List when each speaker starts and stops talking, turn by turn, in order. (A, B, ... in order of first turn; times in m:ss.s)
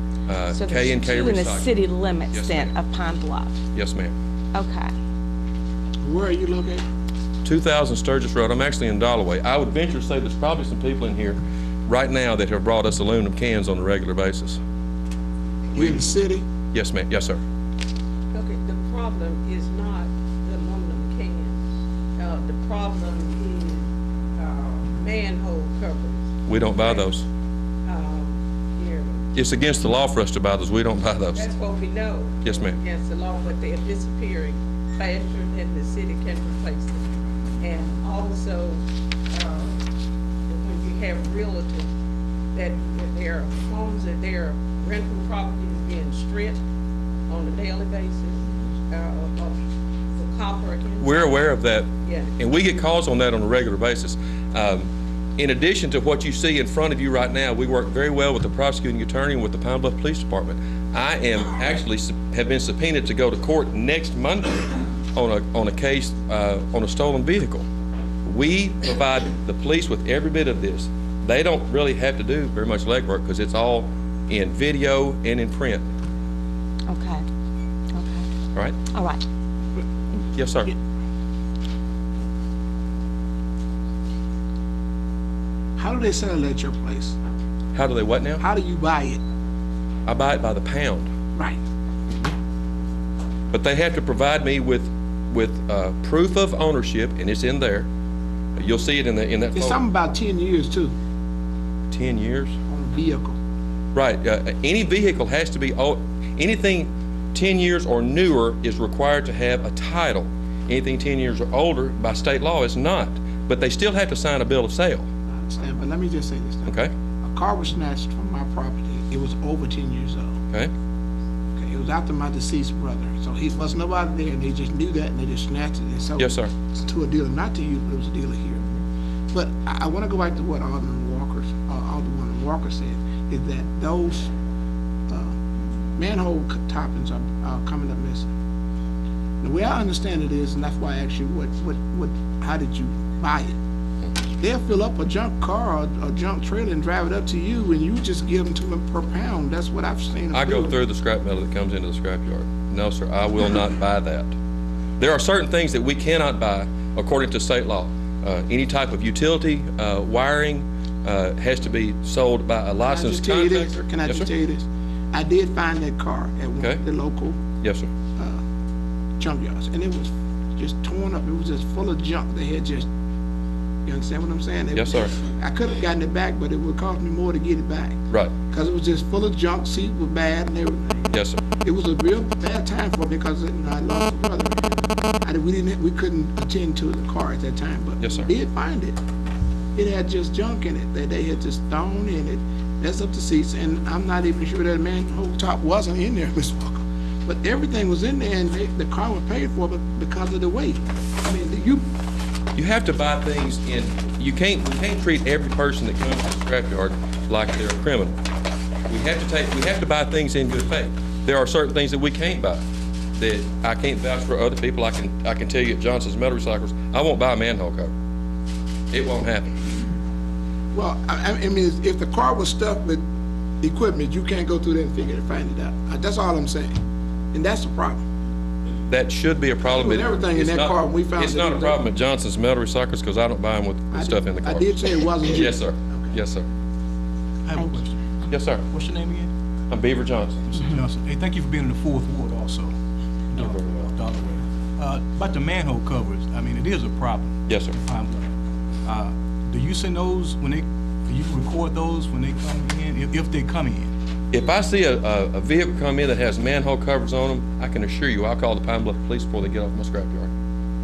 0:00.3-0:01.7 A
0:00.5-0:03.6 B
0:02.3-0:02.7 A
0:03.7-0:04.1 A
0:04.5-0:04.9 B
0:06.0-0:06.8 C
0:07.4-0:14.6 A
0:15.7-0:16.4 C
0:15.8-0:16.0 A
0:16.7-0:17.4 A
0:18.3-0:21.6 D
0:22.2-0:27.1 D
0:26.5-0:27.2 A
0:27.8-0:29.2 D
0:29.3-0:31.4 A
0:31.3-0:37.0 D
0:32.4-0:32.8 A
0:37.6-0:39.8 D
0:40.5-0:41.9 D
0:42.5-0:46.6 D
0:47.3-0:49.6 D
0:50.1-0:51.5 D
0:51.0-1:07.6 A
0:52.0-0:52.4 D
1:08.2-1:15.8 A
1:16.9-1:17.2 B
1:17.9-1:18.2 B
1:18.9-1:19.2 B
1:20.3-1:20.7 A
1:25.8-1:27.2 C
1:27.7-1:28.4 A
1:28.4-1:29.2 C
1:30.0-1:31.1 A
1:33.5-1:37.9 A
1:38.6-1:39.8 A
1:39.5-1:40.9 C
1:41.9-1:42.6 A
1:42.7-1:43.4 C
1:43.9-1:55.1 A
1:55.3-2:00.4 C
1:56.6-1:56.9 A
2:01.5-2:08.6 C
2:06.2-2:06.5 A
2:09.3-2:14.3 C
2:15.1-2:15.3 C
2:16.0-2:18.3 C
2:19.4-2:23.5 C
2:24.4-2:30.8 C
2:30.3-2:34.3 A
2:35.0-2:44.3 A
2:42.9-2:47.4 C
2:47.6-2:47.9 A
2:49.2-2:52.9 C
2:53.8-3:09.0 C
2:54.7-2:55.1 A
3:01.1-3:01.4 A
3:08.0-3:08.3 A
3:09.7-3:21.8 C
3:22.6-3:28.1 A
3:28.9-3:32.6 A
3:33.2-3:37.9 A
3:38.9-3:39.5 A
3:40.7-3:43.0 C
3:43.6-3:46.7 C
3:47.3-3:48.0 C
3:48.9-3:56.4 A
3:49.6-3:51.8 C
3:53.9-3:56.2 C
3:57.4-3:58.2 E
3:58.3-3:58.6 A
3:58.7-3:59.3 E
3:59.7-4:00.4 A
4:00.5-4:02.7 E
4:03.3-4:08.3 E
4:03.4-4:03.9 A
4:07.5-4:07.8 A
4:08.8-4:13.9 E
4:14.3-4:20.3 A